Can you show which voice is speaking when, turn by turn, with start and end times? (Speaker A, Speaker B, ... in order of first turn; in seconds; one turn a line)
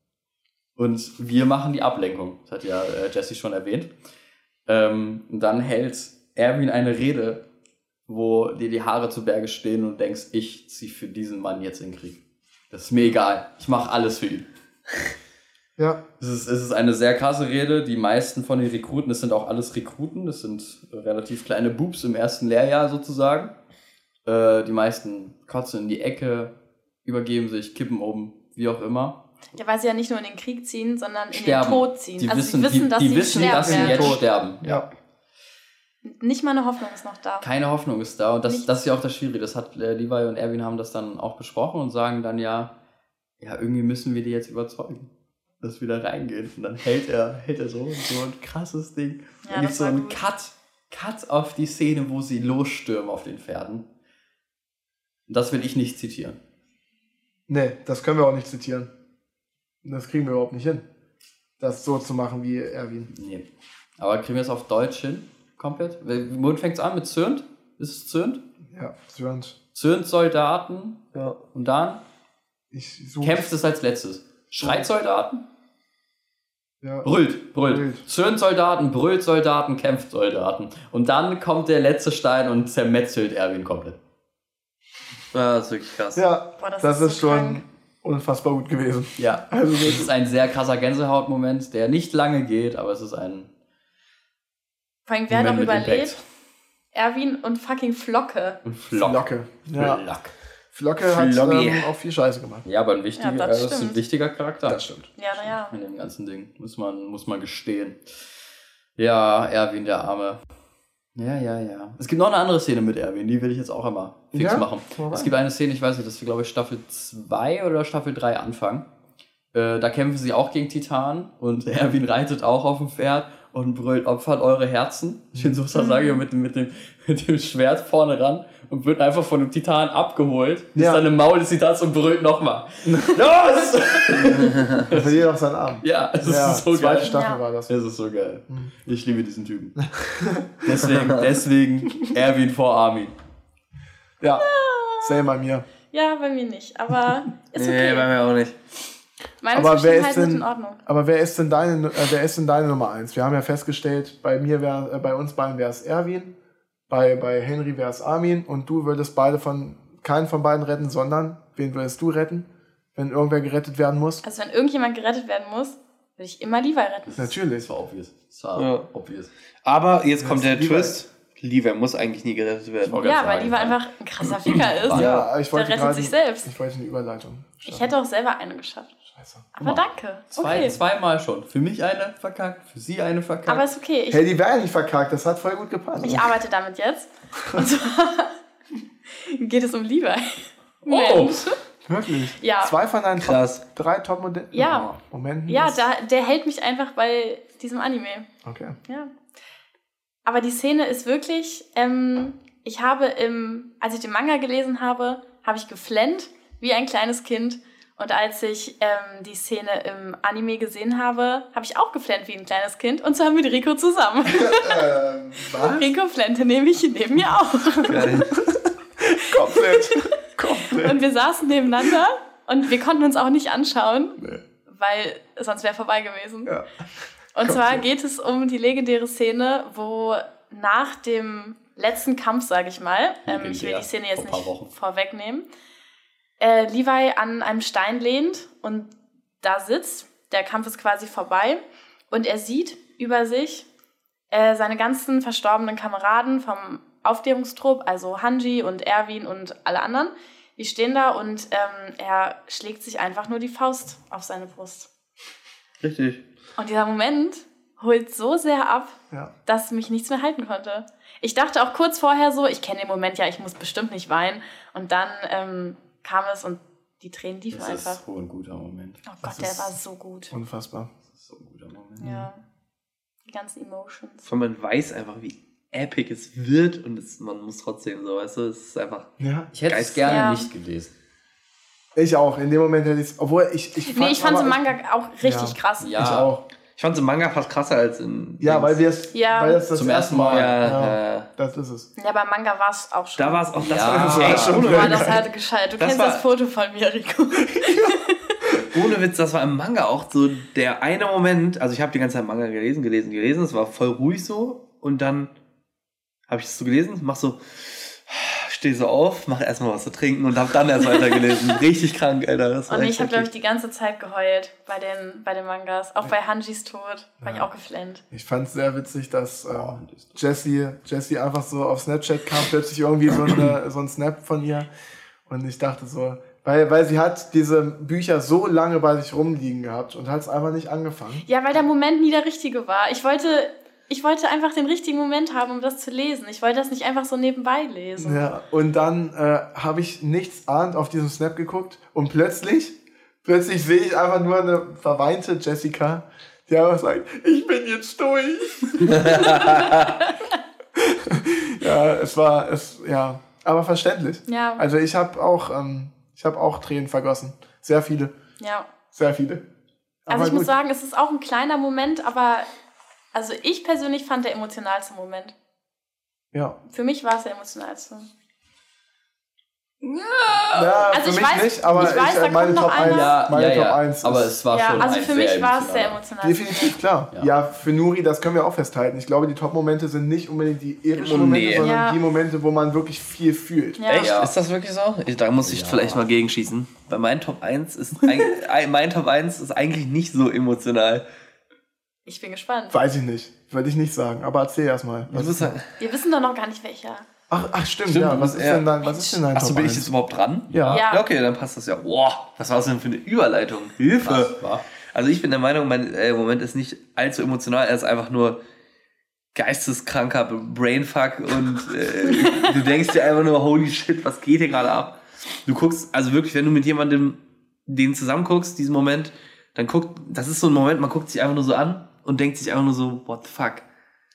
Speaker A: 0.8-3.9
Speaker A: 4.7-7.4
Speaker A: 8.1-14.5
Speaker B: 15.8-16.0
Speaker A: 16.2-23.6
Speaker A: 24.2-29.2
Speaker C: 29.5-34.2
Speaker A: 31.3-34.8
Speaker B: 33.3-34.8
Speaker C: 36.0-37.5
Speaker A: 37.4-42.7
Speaker A: 43.4-45.1
Speaker A: 45.6-53.9
Speaker C: 49.4-50.2
Speaker A: 55.3-56.4
Speaker B: 57.5-58.9
Speaker B: 59.8-60.9
Speaker B: 61.6-63.1
Speaker A: 63.1-68.4
Speaker B: 68.7-69.6
Speaker A: 69.7-72.0
Speaker D: 71.1-71.4
Speaker B: 72.7-73.5
Speaker A: 73.2-75.4
Speaker B: 74.6-74.9
Speaker B: 76.8-78.0
Speaker A: 77.0-84.0
Speaker D: 85.3-86.2
Speaker B: 86.2-90.1
Speaker C: 86.6-87.6
Speaker A: 89.2-93.5
Speaker C: 95.1-96.2
Speaker A: 95.3-96.2
Speaker C: 96.9-98.6
Speaker A: 98.6-99.2
Speaker B: 98.9-100.0
Speaker A: 99.7-100.3
Speaker B: 100.7-102.6
Speaker D: 101.1-101.9
Speaker A: 102.6-104.9
Speaker C: 103.2-104.0
Speaker B: 104.7-105.2
Speaker C: 105.2-105.8
Speaker A: 105.6-108.1
Speaker A: 109.0-110.4
Speaker A: 111.1-118.9
Speaker B: 114.3-115.3
Speaker A: 119.5-135.2
Speaker C: 125.7-126.2
Speaker B: 130.7-131.0
Speaker B: 132.8-133.2
Speaker B: 134.8-137.7
Speaker A: 135.8-137.2
Speaker C: 137.0-137.4
Speaker A: 137.7-139.8
Speaker B: 139.8-140.9
Speaker A: 140.6-143.1
Speaker D: 140.8-141.3
Speaker B: 144.2-144.5
Speaker C: 144.4-145.2
Speaker B: 145.0-145.7
Speaker C: 145.9-148.1
Speaker D: 147.5-148.5
Speaker C: 149.4-150.8
Speaker B: 149.5-156.3
Speaker B: 156.9-164.2
Speaker C: 164.2-167.2
Speaker A: 167.1-169.3
Speaker B: 167.2-167.7
Speaker D: 168.6-168.9
Speaker D: 169.6-173.1
Speaker B: 170.2-171.0
Speaker A: 172.8-173.8
Speaker C: 173.0-176.5
Speaker A: 174.4-175.2
Speaker B: 174.9-177.9
Speaker D: 174.9-175.2
Speaker C: 177.6-178.9
Speaker B: 179.1-179.5
Speaker C: 179.6-180.7
Speaker A: 179.6-183.7
Speaker B: 180.4-180.7
Speaker C: 183.5-184.2
Speaker B: 184.1-186.3
Speaker C: 186.0-188.3
Speaker B: 187.4-187.7
Speaker C: 189.1-191.6
Speaker A: 190.8-191.4
Speaker B: 191.8-195.8
Speaker C: 192.4-192.7
Speaker D: 193.2-193.6
Speaker C: 194.5-194.9
Speaker C: 195.5-198.3
Speaker B: 198.4-198.8
Speaker C: 198.9-199.1
Speaker C: 200.2-214.9
Speaker B: 214.3-215.9
Speaker C: 215.5-218.2
Speaker D: 217.9-218.4
Speaker B: 217.9-221.0
Speaker C: 219.2-226.5
Speaker C: 227.3-235.5
Speaker B: 227.4-227.9
Speaker A: 233.2-234.7
Speaker C: 236.4-243.7
Speaker C: 244.3-254.9
Speaker D: 255.8-256.2
Speaker C: 256.6-268.0
Speaker A: 267.5-269.7
Speaker C: 269.1-270.3
Speaker B: 270.3-270.9
Speaker A: 271.0-272.3
Speaker C: 272.0-272.4
Speaker C: 273.3-274.3
Speaker D: 274.2-280.3
Speaker B: 279.2-279.5
Speaker A: 279.5-280.9
Speaker C: 280.1-280.5
Speaker B: 281.9-284.6
Speaker C: 283.9-286.1
Speaker B: 285.2-286.4
Speaker A: 285.8-286.3
Speaker D: 286.8-288.8
Speaker B: 288.4-291.9
Speaker C: 289.1-289.6
Speaker A: 289.7-290.8
Speaker D: 290.3-291.3
Speaker C: 292.0-293.5
Speaker D: 293.2-295.2
Speaker A: 293.6-294.7
Speaker B: 293.8-295.2
Speaker C: 294.2-298.4
Speaker D: 295.8-296.2
Speaker B: 297.5-297.9
Speaker D: 298.6-305.3
Speaker D: 306.3-313.3
Speaker C: 311.0-311.4
Speaker C: 312.7-318.0
Speaker B: 317.2-317.5
Speaker B: 318.1-324.7
Speaker A: 319.5-320.1
Speaker B: 325.3-331.2
Speaker C: 331.2-338.2
Speaker B: 338.0-349.7
Speaker D: 348.9-349.9
Speaker B: 350.7-358.1
Speaker C: 354.3-354.6
Speaker C: 358.4-358.7
Speaker B: 358.9-359.4
Speaker B: 360.0-360.5
Speaker C: 360.1-362.5
Speaker C: 363.1-365.3
Speaker B: 366.3-366.6
Speaker C: 366.7-368.1
Speaker A: 369.8-370.9
Speaker B: 370.5-375.0
Speaker C: 370.9-373.2
Speaker A: 372.7-376.0
Speaker C: 374.5-376.8
Speaker B: 376.2-383.8
Speaker D: 380.9-381.7
Speaker C: 381.6-382.0
Speaker C: 383.8-384.1
Speaker D: 383.9-391.0
Speaker A: 383.9-384.3
Speaker A: 385.4-386.0
Speaker C: 392.1-392.8
Speaker B: 392.7-395.6
Speaker D: 395.1-395.7
Speaker C: 395.8-397.1
Speaker B: 397.3-399.9
Speaker D: 397.9-404.3
Speaker B: 400.5-400.8
Speaker C: 400.7-401.1
Speaker A: 404.0-404.6
Speaker D: 404.9-408.4
Speaker D: 409.3-423.6
Speaker C: 412.2-412.5